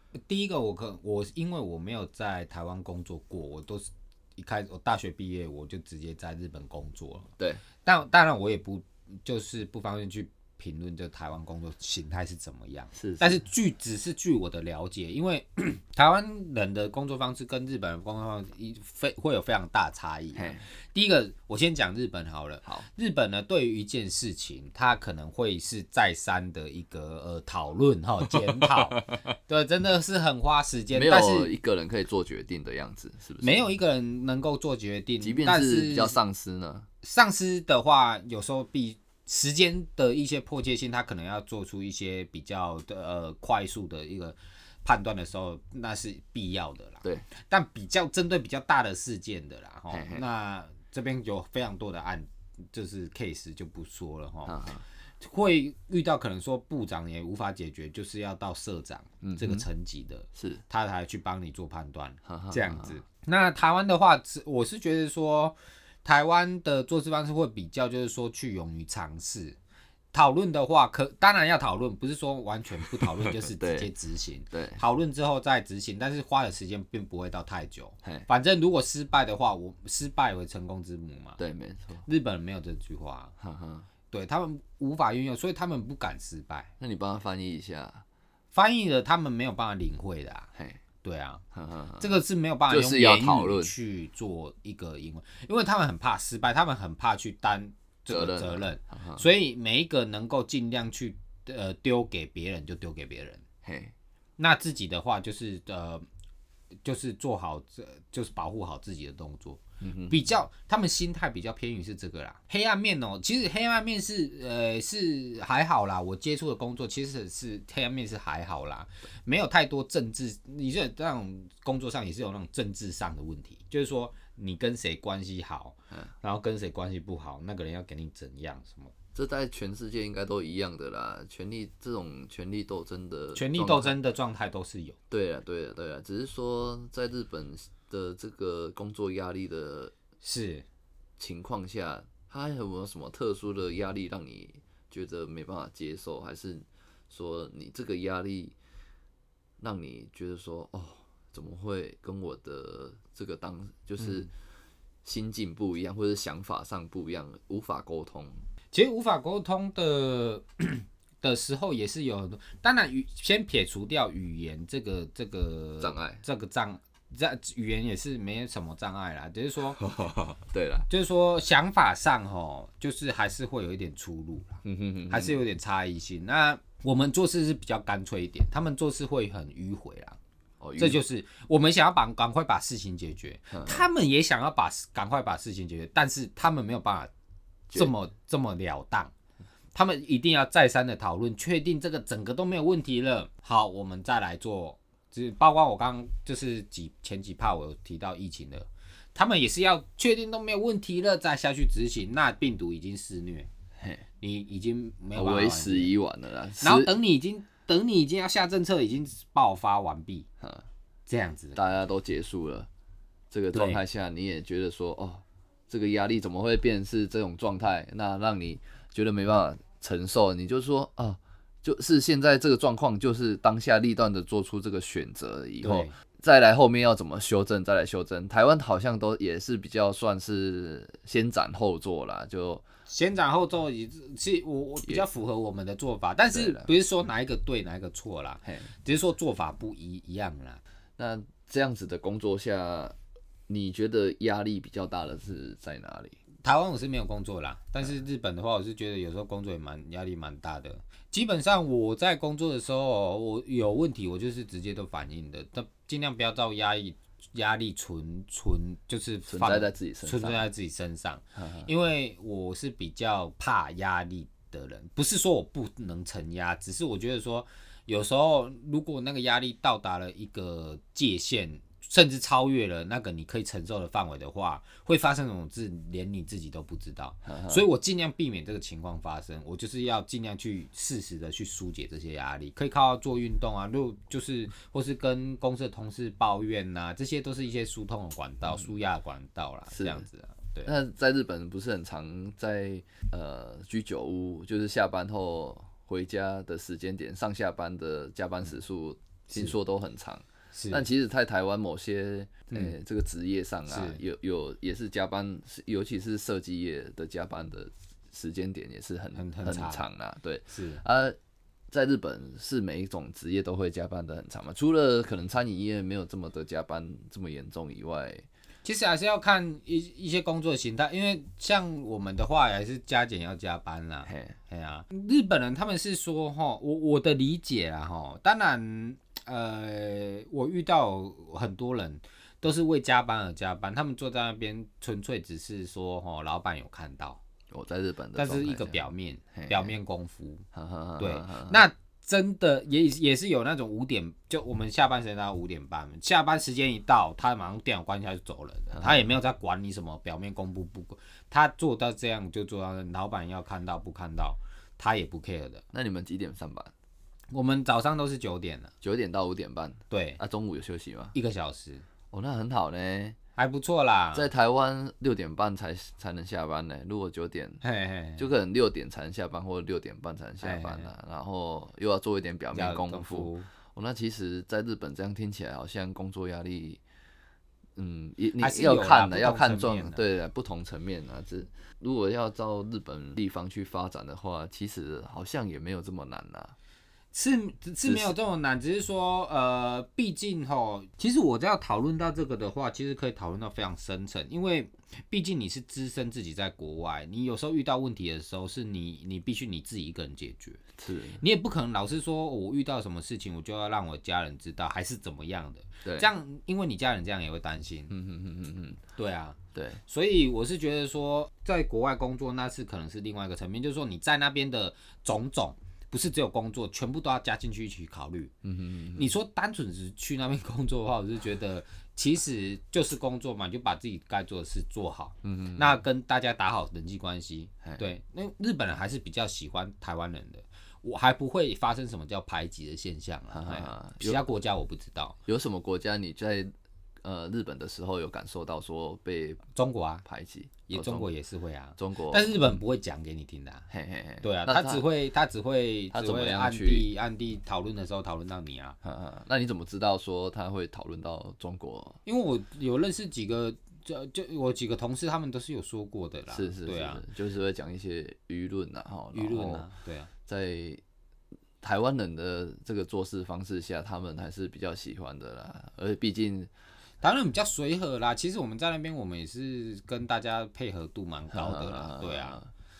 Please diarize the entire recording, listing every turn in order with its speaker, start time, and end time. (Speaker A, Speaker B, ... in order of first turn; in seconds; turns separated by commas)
Speaker A: 0.2-7.3, Speaker A: 7.8-31.5, Speaker B: 12.9-13.4, Speaker B: 20.3-20.6, Speaker B: 28.3-29.2, Speaker B: 30.9-33.7, Speaker A: 33.4-36.2, Speaker B: 35.2-36.9, Speaker A: 37.0-54.6, Speaker B: 49.9-50.2, Speaker B: 54.5-54.8, Speaker A: 55.2-69.6, Speaker B: 59.2-59.6, Speaker B: 60.3-60.6, Speaker B: 62.2-63.0, Speaker A: 70.1-81.4, Speaker B: 73.0-73.9, Speaker B: 74.5-74.8, Speaker B: 78.0-78.3, Speaker B: 81.4-82.0, Speaker A: 82.0-83.3, Speaker B: 83.4-83.9, Speaker A: 84.1-86.7, Speaker B: 86.8-88.0, Speaker A: 88.5-90.5, Speaker B: 90.5-90.8, Speaker A: 91.0-91.4, Speaker B: 91.5-92.1, Speaker A: 92.0-103.4, Speaker B: 92.7-93.7, Speaker B: 98.1-99.2, Speaker B: 103.6-103.9, Speaker A: 104.4-106.0, Speaker A: 106.8-128.9, Speaker B: 109.8-110.2, Speaker B: 129.1-134.0, Speaker A: 133.3-135.0, Speaker B: 135.1-139.9, Speaker A: 140.2-140.6, Speaker B: 141.2-148.5, Speaker B: 149.6-154.3, Speaker B: 155.0-158.4, Speaker A: 158.7-169.8, Speaker B: 165.8-166.2, Speaker B: 169.8-170.9, Speaker A: 170.9-180.2, Speaker B: 174.6-175.4, Speaker B: 180.6-181.0, Speaker A: 180.8-187.1, Speaker B: 183.5-183.8, Speaker A: 187.7-189.1, Speaker A: 189.8-203.5, Speaker B: 203.8-204.0, Speaker A: 204.2-205.9, Speaker B: 205.2-206.9, Speaker A: 206.6-210.3, Speaker B: 210.4-210.7, Speaker A: 211.1-211.7, Speaker B: 211.5-212.7, Speaker B: 213.3-232.6, Speaker A: 213.5-213.8, Speaker A: 225.6-225.9, Speaker A: 232.9-240.6, Speaker B: 236.3-236.7, Speaker B: 238.4-238.7, Speaker B: 241.0-243.0, Speaker B: 243.5-246.2, Speaker A: 246.4-290.7, Speaker B: 259.3-260.5, Speaker B: 261.4-261.7, Speaker B: 277.2-277.6, Speaker B: 289.7-290.0, Speaker B: 290.6-311.2, Speaker A: 300.5-300.9, Speaker A: 303.7-304.0, Speaker A: 309.1-309.9, Speaker A: 310.5-310.8, Speaker B: 311.7-318.2, Speaker A: 318.6-337.2, Speaker B: 324.1-324.4, Speaker B: 337.5-338.8, Speaker A: 338.1-340.4, Speaker B: 339.3-339.7, Speaker B: 340.5-341.6, Speaker A: 341.0-355.6, Speaker B: 348.7-349.0, Speaker B: 355.7-356.7, Speaker A: 357.3-358.7, Speaker B: 358.8-361.1, Speaker A: 359.9-360.2, Speaker A: 361.1-361.9, Speaker B: 362.1-363.2, Speaker A: 363.4-364.3, Speaker B: 364.1-367.6, Speaker A: 367.6-368.2, Speaker B: 368.2-376.8, Speaker A: 370.4-370.9, Speaker A: 372.5-373.5, Speaker B: 377.8-386.5, Speaker A: 378.4-380.0, Speaker A: 387.1-400.6, Speaker B: 387.9-388.1, Speaker B: 400.8-401.2, Speaker A: 401.2-407.9, Speaker B: 407.9-408.8, Speaker A: 409.0-418.3, Speaker B: 409.5-409.8, Speaker B: 418.4-419.1, Speaker A: 418.9-435.2, Speaker B: 425.2-425.8, Speaker B: 433.3-434.2, Speaker B: 435.3-436.5, Speaker B: 437.0-439.4, Speaker A: 439.5-440.0, Speaker B: 440.0-441.1, Speaker A: 440.7-443.7, Speaker B: 441.8-442.6, Speaker B: 443.7-444.9, Speaker A: 444.2-448.8, Speaker B: 445.9-446.9, Speaker B: 448.8-452.0, Speaker A: 452.1-457.0, Speaker B: 456.3-459.7, Speaker A: 459.1-460.1, Speaker B: 460.3-460.8, Speaker B: 461.6-466.5, Speaker A: 467.0-472.4, Speaker B: 471.3-472.5